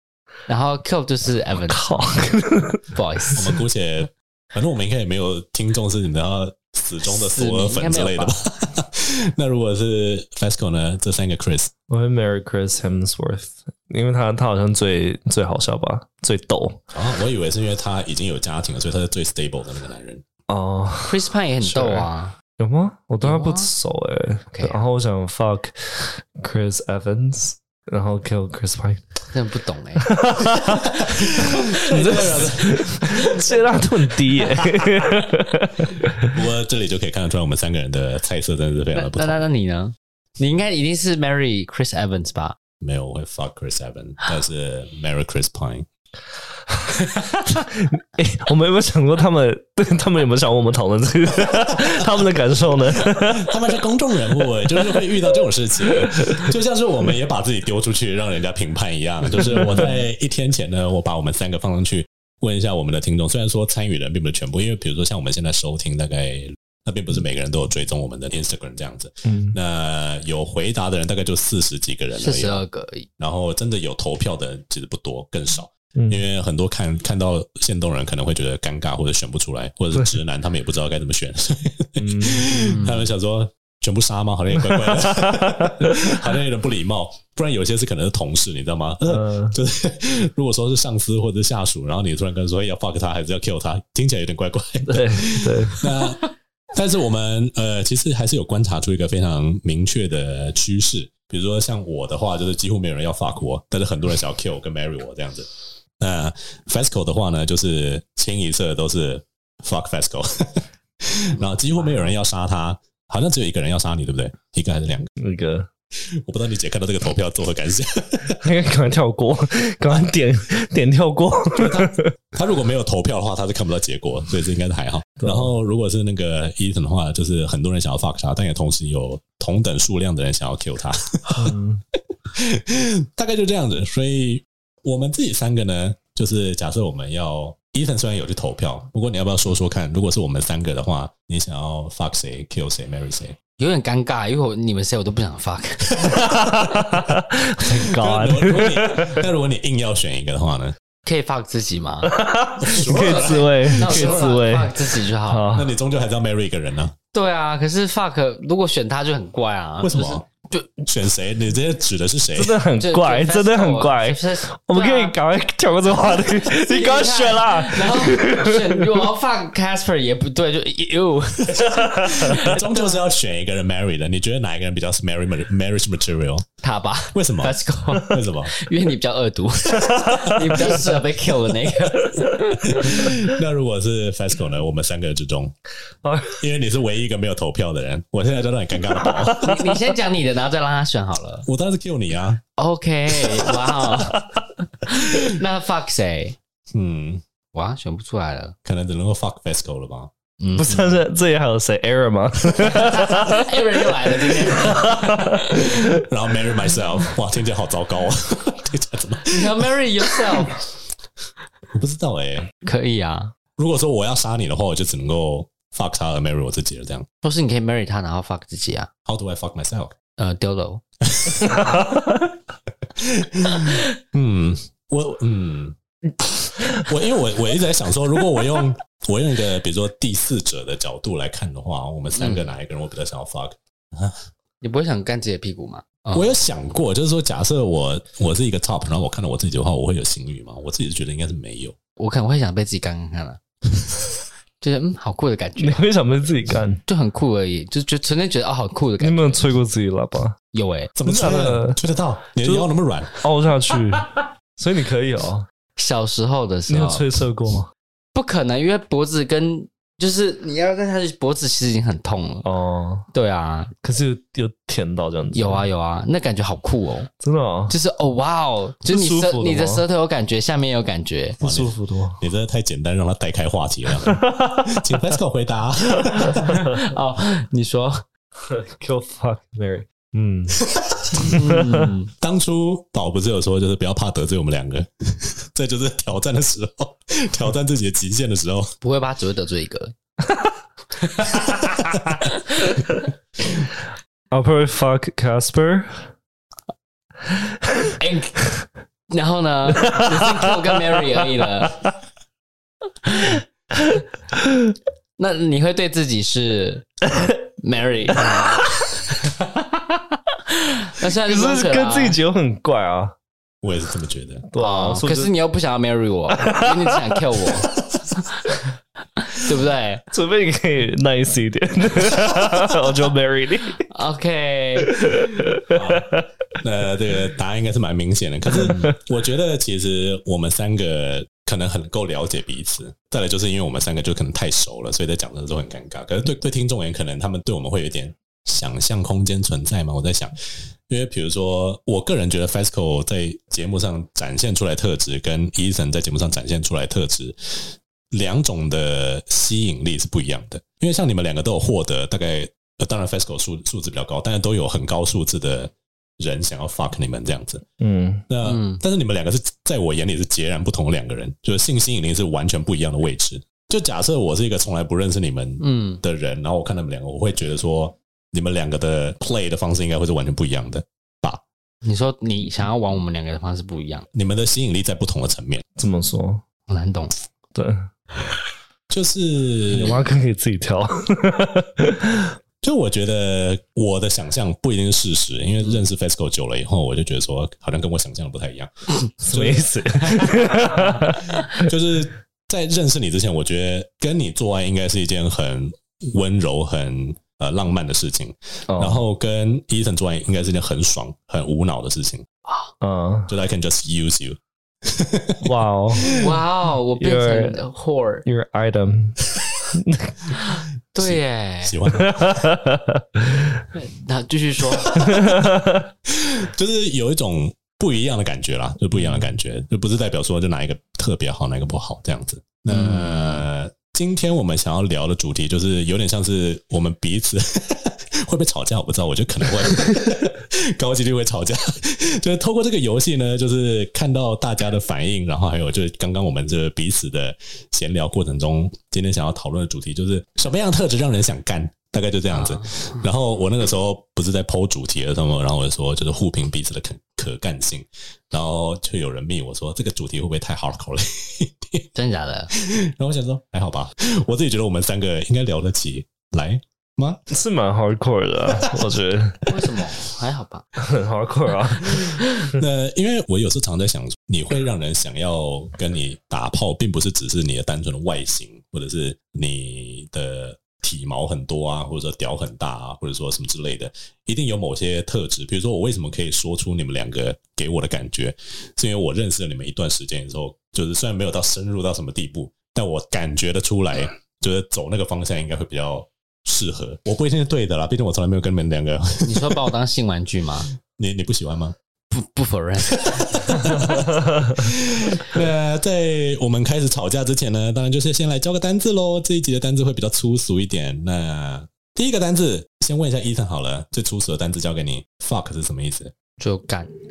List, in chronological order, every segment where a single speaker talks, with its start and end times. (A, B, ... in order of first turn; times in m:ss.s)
0:00.5-0:02.0 A
0:01.7-0:03.4 B
0:02.9-0:03.5 A
0:03.3-0:11.7 C
0:07.0-0:08.4 A
0:11.9-0:16.8 B
0:16.9-0:20.2 C
0:20.5-0:29.1 B
0:21.0-0:22.3 A
0:23.2-0:23.7 A
0:24.5-0:24.8 A
0:29.3-0:30.1 A
0:30.0-0:36.3 B
0:30.6-0:33.3 C
0:36.3-0:39.4 C
0:38.9-0:42.6 A
0:42.8-0:45.9 C
0:47.4-0:53.6 B
0:53.0-1:12.6 C
0:54.3-0:55.0 B
0:55.8-0:56.5 B
0:59.4-1:00.0 B
1:09.2-1:09.6 B
1:12.1-1:13.1 A
1:13.2-1:36.2 C
1:15.9-1:16.2 B
1:22.0-1:22.7 B
1:22.6-1:23.1 A
1:24.6-1:26.2 B
1:29.1-1:29.6 B
1:34.9-1:35.8 B
1:36.7-1:55.1 C
1:55.2-1:55.7 B
1:56.2-1:58.4 C
1:58.4-2:02.1 B
2:01.5-2:11.5 C
2:05.2-2:05.5 B
2:11.4-2:11.8 B
2:12.3-2:23.4 C
2:23.6-2:26.2 A
2:25.9-2:27.0 C
2:26.1-2:29.2 B
2:27.7-2:30.7 C
2:31.0-2:32.1 A
2:32.0-2:35.7 B
2:32.6-2:34.6 C
2:32.7-2:35.5 A
2:35.5-2:37.0 C
2:37.1-2:40.7 A
2:39.8-2:40.2 C
2:40.8-2:42.6 C
2:42.4-2:49.1 B
2:42.8-2:45.2 A
2:46.2-2:53.1 A
2:51.5-2:56.5 C
2:51.9-2:52.3 B
2:56.6-3:03.1 A
2:57.1-2:58.6 C
2:59.7-3:00.8 C
3:02.6-3:05.5 C
3:06.0-3:06.4 B
3:06.4-3:09.6 C
3:09.0-3:09.5 B
3:09.4-3:11.5 A
3:11.4-3:12.4 C
3:12.6-3:14.2 A
3:13.9-3:14.2 B
3:14.8-3:16.4 A
3:14.9-3:15.3 C
3:16.7-3:17.2 C
3:17.5-3:18.5 A
3:18.6-3:20.1 C
3:20.4-3:21.0 A
3:20.6-3:26.0 B
3:22.7-3:25.6 A
3:25.2-3:30.6 C
3:29.3-3:30.6 A
3:31.7-3:32.5 C
3:32.6-3:33.3 A
3:33.6-3:37.1 C
3:37.2-3:38.9 A
3:39.0-3:39.9 C
3:40.2-3:40.8 A
3:41.1-3:41.9 C
3:41.5-3:42.0 B
3:43.0-3:45.8 C
3:46.6-3:54.2 C
3:52.2-3:52.5 A
3:54.6-3:56.4 A
3:56.1-4:01.8 C
4:02.0-4:03.4 A
4:04.6-4:05.8 A
4:05.6-4:06.8 B
4:06.8-4:09.4 A
4:09.0-4:10.3 B
4:10.5-4:10.9 A
4:11.0-4:13.1 C
4:11.0-4:11.8 B
4:12.4-4:12.7 B
4:13.2-4:15.4 B
4:15.8-4:17.1 A
4:16.7-4:17.7 B
4:18.1-4:22.5 A
4:22.4-4:23.1 B
4:23.1-4:23.7 A
4:23.8-4:25.6 B
4:25.3-4:27.1 A
4:27.2-4:27.8 B
4:27.7-4:31.4 A
4:28.9-4:29.8 B
4:31.4-4:36.5 C
4:31.4-4:32.2 B
4:34.0-4:35.0 B
4:36.2-4:38.0 A
4:36.5-4:36.8 B
4:38.4-4:40.6 B
4:40.6-4:41.4 C
4:41.2-4:41.9 B
4:41.2-4:42.1 A
4:42.2-4:48.7 C
4:48.8-4:49.9 A
4:51.0-4:51.6 A
4:51.4-4:52.2 C
4:52.6-4:52.8 A
4:54.3-4:56.0 B
4:58.0-4:58.5 A
4:59.1-5:01.8 A
4:59.8-5:00.5 B
5:01.1-5:01.9 B
5:03.0-5:03.4 A
5:03.7-5:04.7 B
5:05.2-5:09.5 A
5:08.2-5:08.6 B
5:10.5-5:12.2 A
5:11.2-5:13.2 B
5:13.6-5:14.5 C
5:14.5-5:15.3 B
5:14.6-5:17.7 A
5:16.4-5:17.3 B
5:19.2-5:20.0 A
5:20.1-5:23.8 B
5:23.9-5:25.0 A
5:24.8-5:26.2 B
5:25.7-5:57.6 C
5:28.5-5:28.9 B
5:57.8-5:58.2 B
5:58.3-6:11.4 C
5:58.4-5:58.8 A
6:05.6-6:06.0 A
6:11.8-6:14.1 A
6:14.1-6:15.6 C
6:15.8-6:16.4 B
6:16.7-6:17.1 A
6:17.5-6:17.9 B
6:18.9-6:20.0 C
6:19.7-6:22.3 B
6:22.6-6:28.7 C
6:29.2-6:30.2 C
6:29.2-6:31.7 B
6:30.8-6:42.3 C
6:38.7-6:39.0 B
6:42.8-6:43.3 B
6:43.3-6:46.2 C
6:45.4-6:46.2 B
6:46.1-6:48.2 A
6:47.0-6:47.6 B
6:48.2-6:49.2 B
6:49.7-6:50.3 B
6:50.4-6:51.7 A
6:51.0-6:52.4 C
6:51.9-6:53.6 B
6:53.7-6:55.0 A
6:54.8-6:55.4 C
6:55.0-6:55.9 B
6:56.1-7:31.9 C
7:02.7-7:03.4 A
7:22.3-7:23.0 A
7:32.0-7:32.5 A
7:32.5-7:37.2 C
7:37.3-7:39.8 B
7:38.5-7:38.8 C
7:39.5-7:40.7 A
7:40.8-7:42.6 B
7:41.9-7:42.2 A
7:42.4-8:09.7 C
8:09.2-8:10.7 A
8:10.9-8:11.7 C
8:12.1-8:14.0 A
8:12.9-8:26.1 C
8:26.4-8:27.0 A